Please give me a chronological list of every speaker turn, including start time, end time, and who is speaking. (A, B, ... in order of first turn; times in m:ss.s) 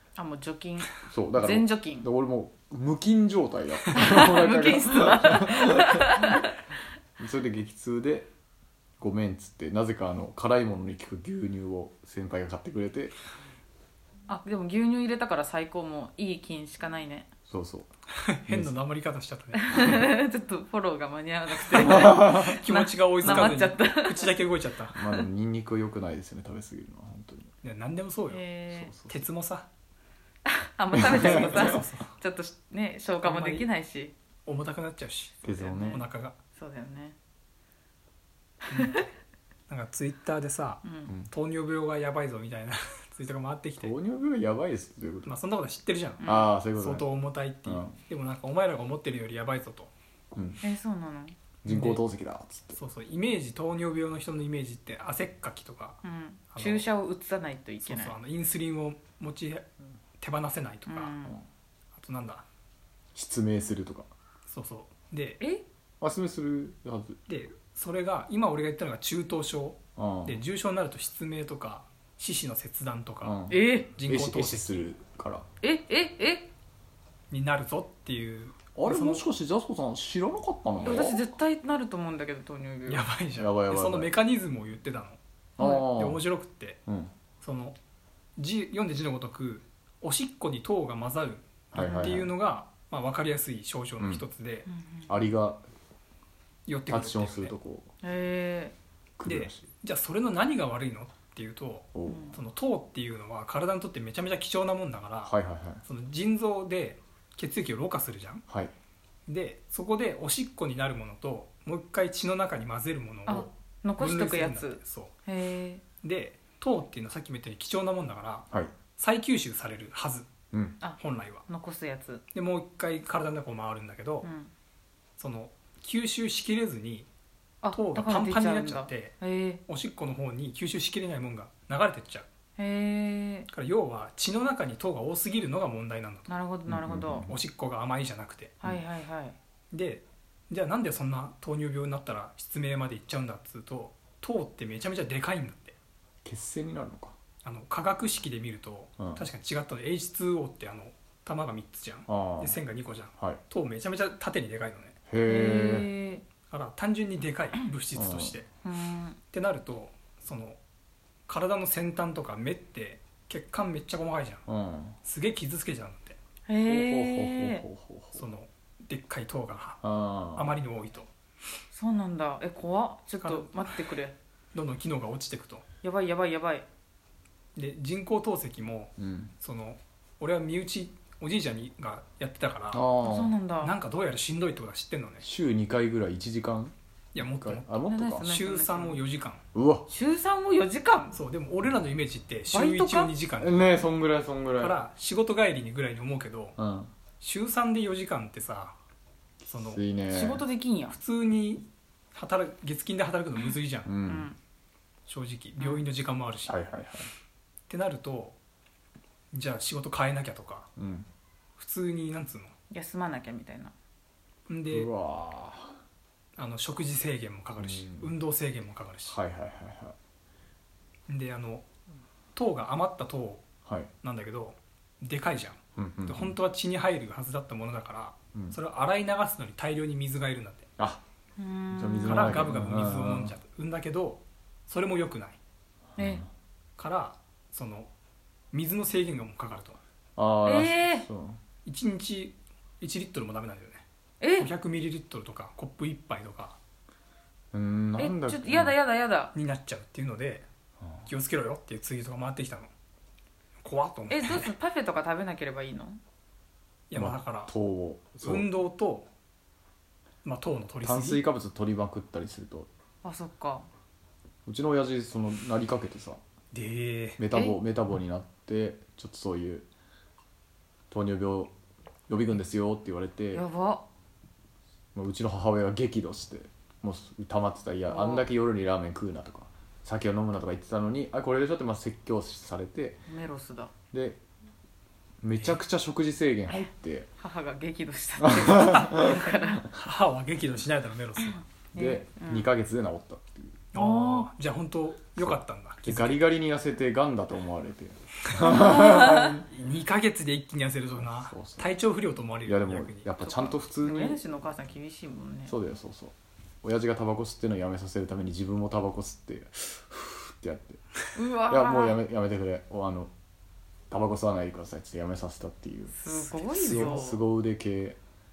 0:00.2-0:02.1 A
0:01.1-0:06.4 B
0:03.9-0:06.5 A
0:07.2-0:08.3 B
0:09.0-0:13.1 B
0:14.3-0:17.3 A
0:17.5-0:17.9 B
0:18.2-0:20.1 C
0:18.5-0:18.8 B
0:19.6-0:24.4 A
0:21.7-0:22.6 B
0:21.8-0:25.0 C
0:23.2-0:23.6 B
0:25.0-0:27.5 B
0:25.0-0:25.2 A
0:27.6-0:28.4 C
0:28.3-0:29.0 A
0:28.7-0:29.2 B
0:29.1-0:29.7 C
0:30.5-0:34.1 A
0:30.9-0:31.8 B
0:31.0-0:32.1 C
0:33.2-0:33.7 C
0:34.5-0:36.4 C
0:35.4-0:36.0 B
0:35.4-0:37.2 A
0:38.7-0:39.0 A
0:38.7-0:39.1 C
0:39.7-0:44.0 C
0:40.8-0:41.1 A
0:43.8-0:45.3 B
0:45.3-0:49.9 C
0:46.2-0:46.6 A
0:46.2-0:47.1 B
0:47.7-0:48.0 B
0:50.3-0:50.6 B
0:50.6-0:51.4 A
0:51.6-0:52.0 C
0:51.6-0:52.8 B
0:52.8-0:56.0 C
0:56.0-0:58.2 A
0:56.5-0:56.9 C
0:57.8-0:59.7 C
1:00.2-1:01.2 C
1:00.9-1:01.4 A
1:02.0-1:02.4 C
1:03.2-1:04.1 B
1:04.5-1:05.4 C
1:06.0-1:07.2 B
1:07.3-1:14.9 C
1:10.0-1:10.4 B
1:13.2-1:15.4 B
1:13.5-1:13.9 A
1:15.6-1:16.5 A
1:17.3-1:19.3 C
1:18.8-1:21.3 B
1:20.8-1:23.1 A
1:22.9-1:25.2 C
1:23.4-1:24.1 B
1:25.6-1:26.2 B
1:25.6-1:25.9 A
1:25.7-1:26.8 C
1:26.9-1:27.1 B
1:27.4-1:27.8 C
1:28.4-1:34.7 C
1:31.7-1:32.3 B
1:34.0-1:34.2 B
1:34.7-1:35.2 A
1:35.1-1:35.6 B
1:36.7-1:37.6 C
1:36.9-1:37.9 B
1:38.0-1:38.8 A
1:39.2-1:39.7 B
1:39.2-1:45.3 C
1:42.0-1:42.4 B
1:42.1-1:42.4 A
1:45.2-1:45.8 B
1:45.9-1:48.4 C
1:49.3-1:55.1 C
1:53.3-1:55.8 A
1:56.0-2:00.3 C
2:00.5-2:00.8 B
2:00.8-2:02.2 A
2:01.0-2:01.4 C
2:02.3-2:04.3 C
2:04.2-2:04.5 A
2:05.2-2:07.1 C
2:07.6-2:09.6 A
2:07.7-2:12.3 C
2:12.6-2:13.5 A
2:13.5-2:16.3 C
2:16.3-2:17.3 A
2:16.7-2:17.4 B
2:17.3-2:18.5 C
2:18.6-2:19.4 A
2:19.7-2:25.8 C
2:26.2-2:27.2 B
2:27.4-2:35.0 C
2:29.0-2:29.2 B
2:32.1-2:32.6 B
2:35.1-2:35.9 B
2:35.3-2:36.2 A
2:36.5-2:38.5 C
2:38.0-2:38.4 B
2:38.6-2:39.2 A
2:39.3-2:40.6 C
2:41.3-2:44.4 C
2:44.5-2:45.0 B
2:45.0-2:46.2 C
2:46.5-2:47.6 A
2:46.6-2:48.2 B
2:48.1-2:49.8 C
2:49.8-2:50.5 B
2:50.4-2:51.1 C
2:51.7-2:54.2 A
2:53.2-2:53.7 C
2:54.5-2:55.6 C
2:55.8-2:56.7 A
2:57.6-3:02.9 C
2:59.0-2:59.3 B
3:02.7-3:03.3 B
3:03.0-3:03.7 A
3:03.6-3:05.3 C
3:05.2-3:08.3 B
3:07.2-3:09.4 C
3:07.9-3:09.0 A
3:09.5-3:09.9 B
3:09.9-3:11.2 A
3:11.1-3:13.8 C
3:12.5-3:13.1 A
3:13.4-3:14.8 B
3:14.6-3:16.6 C
3:16.6-3:16.9 B
3:17.2-3:18.8 C
3:19.4-3:20.4 B
3:19.5-3:19.8 C
3:20.1-3:21.0 A
3:20.9-3:23.9 C
3:23.8-3:24.3 B
3:24.1-3:24.4 A
3:25.1-3:26.5 C
3:25.6-3:25.9 A
3:26.5-3:27.1 B
3:27.7-3:28.4 C
3:29.3-3:30.7 C
3:30.8-3:31.1 B
3:31.6-3:32.5 C
3:32.7-3:33.7 A
3:34.5-3:34.9 C
3:34.7-3:35.8 B
3:36.4-3:39.2 C
3:37.6-3:38.1 B
3:39.1-3:40.0 B
3:41.1-3:41.6 C
3:42.4-3:43.4 C
3:43.6-3:43.9 B
3:44.0-3:50.7 C
3:45.8-3:46.4 B
3:50.8-3:51.0 B
3:51.4-3:52.4 A
3:51.7-3:53.4 B
3:52.0-3:55.4 C
3:56.0-3:56.3 B
3:56.0-3:56.2 A
3:56.8-3:57.9 C
3:58.5-3:59.8 C
4:00.2-4:01.4 B
4:00.4-4:01.1 A
4:01.7-4:03.8 C
4:04.2-4:04.5 A
4:04.4-4:06.6 C
4:07.5-4:08.8 B
4:08.0-4:09.3 A
4:09.3-4:10.4 C
4:11.1-4:12.7 C
4:13.6-4:14.5 C
4:14.1-4:16.0 A
4:16.9-4:17.5 C
4:16.9-4:18.5 B
4:18.2-4:19.1 C
4:20.2-4:21.2 C
4:20.8-4:22.7 B
4:23.0-4:23.7 A
4:24.5-4:26.2 B
4:26.5-4:27.2 C
4:27.2-4:29.7 B
4:27.3-4:27.6 A
4:30.9-4:31.5 B
4:32.1-4:33.4 B
4:33.3-4:33.9 A
4:35.0-4:43.0 B
4:37.9-4:38.3 A
4:43.1-4:43.7 A
4:43.9-4:44.2 B
4:45.2-4:47.1 B
4:46.5-4:49.7 A
4:48.2-4:49.3 B
4:48.7-4:51.4 C
4:51.2-4:52.5 A
4:51.8-4:53.7 B
4:53.7-4:56.2 C
4:53.7-4:54.3 A
4:55.2-4:59.4 B
4:58.3-5:03.1 C
5:01.0-5:01.7 B
5:02.4-5:04.2 B
5:03.2-5:05.6 A
5:05.5-5:10.8 B
5:11.2-5:12.0 A
5:11.5-5:13.1 B
5:13.9-5:16.0 B
5:16.0-5:17.3 A
5:16.1-5:17.0 C
5:16.5-5:18.0 B